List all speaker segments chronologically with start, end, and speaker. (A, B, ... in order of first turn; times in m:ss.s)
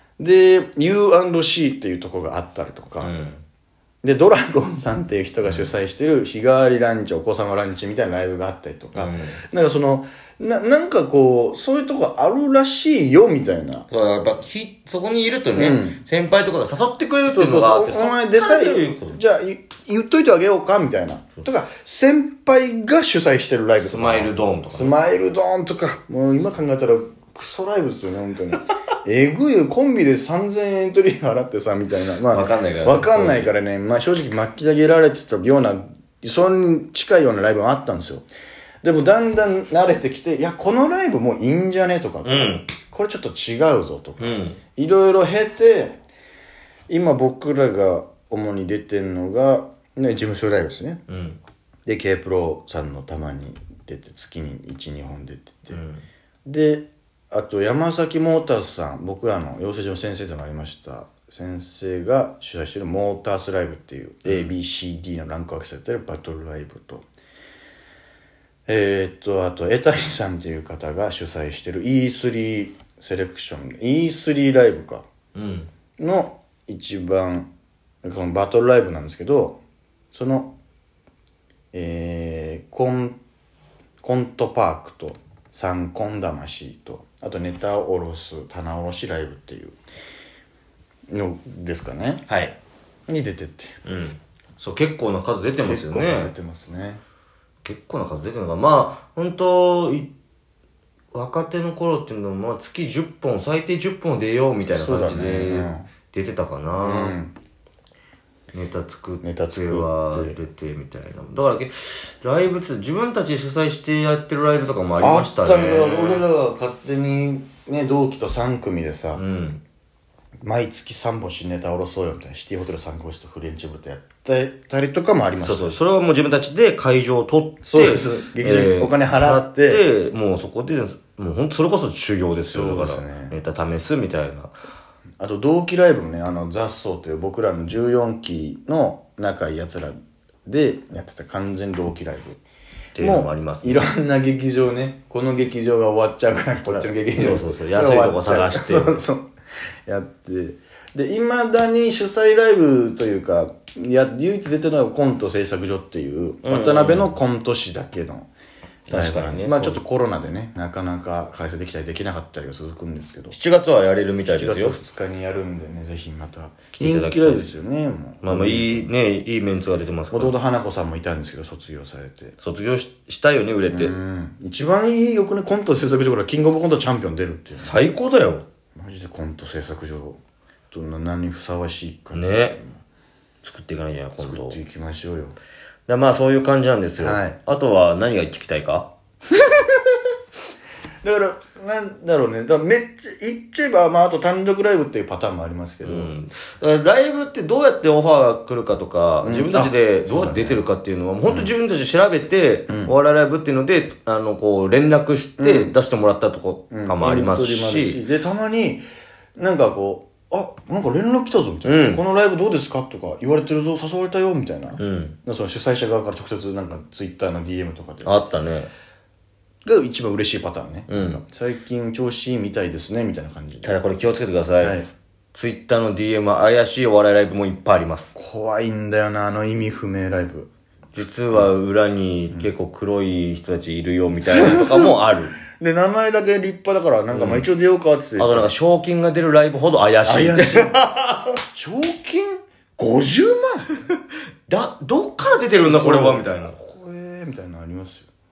0:00.2-0:03.1 A
0:03.0-0:03.4 B
0:04.0-0:13.9 A
0:05.4-0:05.7 B
0:09.0-0:09.4 B
0:13.9-0:19.2 B
0:15.5-0:16.0 A
0:17.3-0:38.2 A
0:23.8-0:25.0 B
0:32.3-0:33.5 B
0:38.8-0:46.0 A
0:42.2-0:42.7 B
0:44.2-0:44.6 B
0:46.9-0:51.0 A
0:51.1-0:51.4 B
0:51.9-0:55.8 A
0:55.7-0:56.0 B
0:56.4-1:07.0 A
1:04.2-1:04.5 B
1:08.7-1:15.0 A
1:15.4-1:15.7 B
1:16.0-1:17.5 A
1:18.0-1:19.6 A
1:20.1-1:20.5 A
1:21.7-1:23.2 A
1:24.0-1:29.8 A
1:31.1-1:32.2 A
1:32.3-1:32.6 B
1:33.1-1:33.8 A
1:33.8-1:36.3 B
1:35.6-1:37.0 A
1:37.6-1:40.1 B
1:41.1-1:47.2 B
1:44.7-1:45.9 A
1:46.8-1:47.4 A
1:48.5-1:56.3 B
1:49.2-1:50.4 A
1:55.0-1:59.2 A
1:59.2-1:59.6 B
2:00.4-2:05.8 A
2:05.4-2:14.5 B
2:07.6-2:09.8 A
2:12.5-2:13.4 A
2:15.2-2:22.4 A
2:23.0-2:23.9 B
2:23.0-2:29.3 A
2:26.6-2:29.0 B
2:29.9-2:38.3 A
2:36.4-2:37.1 B
2:38.9-2:43.4 A
2:38.9-2:39.8 B
2:43.3-2:44.8 B
2:44.3-2:48.9 A
2:46.7-2:47.5 B
2:48.2-2:50.4 B
2:50.1-2:52.4 A
2:52.4-2:54.0 B
2:53.7-2:57.8 A
2:57.6-2:58.4 B
2:58.8-3:00.2 A
3:00.7-3:02.8 A
3:02.1-3:02.6 B
3:03.4-3:04.6 B
3:04.2-3:05.4 A
3:05.9-3:08.9 B
3:07.0-3:07.4 A
3:09.3-3:10.0 A
3:11.0-3:16.1 A
3:15.8-3:28.0 B
3:19.2-3:20.6 A
3:21.3-3:21.5 A
3:22.7-3:22.9 A
3:25.4-3:25.7 A
3:26.7-3:28.8 A
3:29.4-3:38.2 A
3:31.6-3:32.0 B
3:34.8-3:35.2 B
3:38.0-3:38.7 B
3:39.6-3:43.8 A
3:40.9-3:41.2 B
3:43.6-3:44.8 B
3:44.6-3:44.9 A
3:45.3-3:48.1 B
3:48.2-3:50.5 A
3:50.9-3:55.4 B
3:54.2-3:58.5 A
3:57.1-3:57.5 B
3:58.2-4:01.4 B
4:00.1-4:00.8 A
4:01.5-4:03.7 A
4:04.5-4:06.5 B
4:05.6-4:08.1 A